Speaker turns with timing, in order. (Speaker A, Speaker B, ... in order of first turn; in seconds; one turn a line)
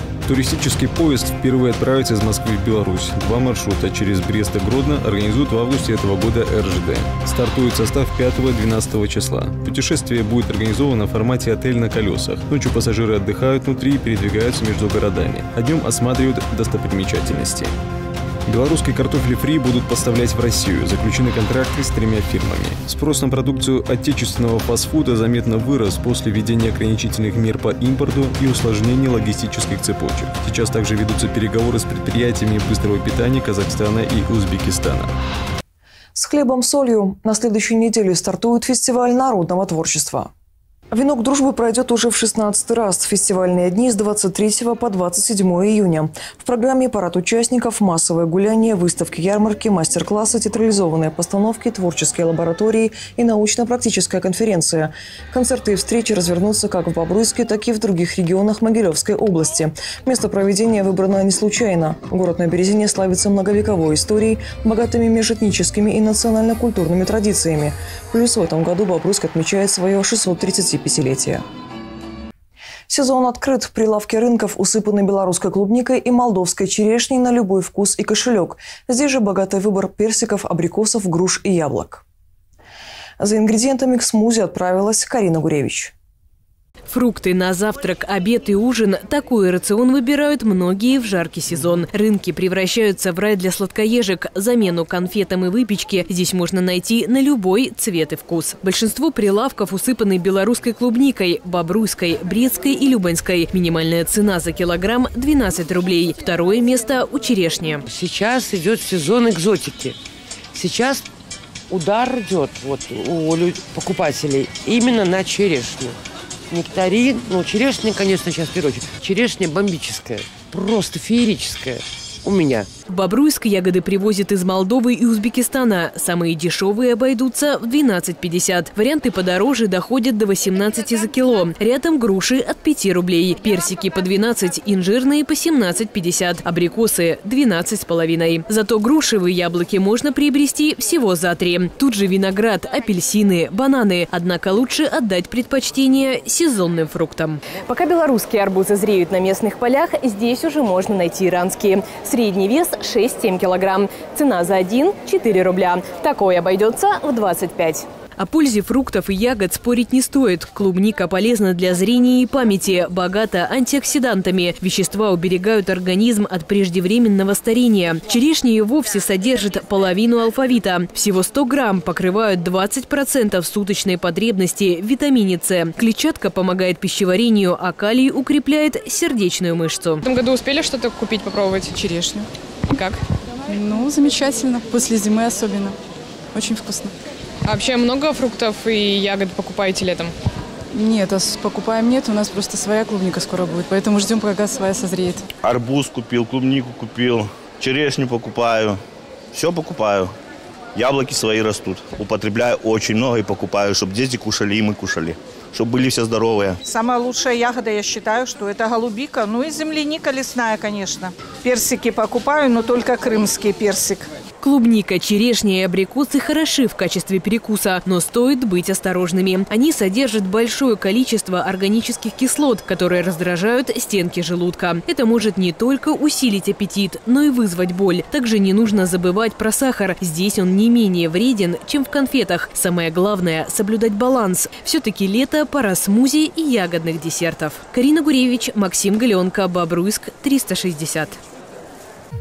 Speaker A: 0.2-17.7
Speaker A: 18.5-35.1
Speaker B: 36.1-40.3
Speaker B: 40.9-71.4
Speaker B: 72.9-82.0
Speaker B: 83.2-85.9
Speaker C: 86.9-107.8
Speaker D: 107.9-110.0
Speaker D: 110.5-111.0
Speaker D: 111.7-116.0
Speaker D: 116.5-122.7
Speaker C: 122.9-180.1
Speaker E: 180.0-181.8
Speaker F: 181.7-182.3
Speaker E: 182.7-183.0
Speaker F: 183.5-185.8
Speaker F: 186.3-186.9
Speaker E: 187.4-190.1
Speaker F: 190.7-195.2
Speaker G: 195.4-198.8
Speaker G: 199.3-200.1
Speaker G: 200.7-206.6
Speaker H: 206.7-214.0
Speaker C: 214.4-241.2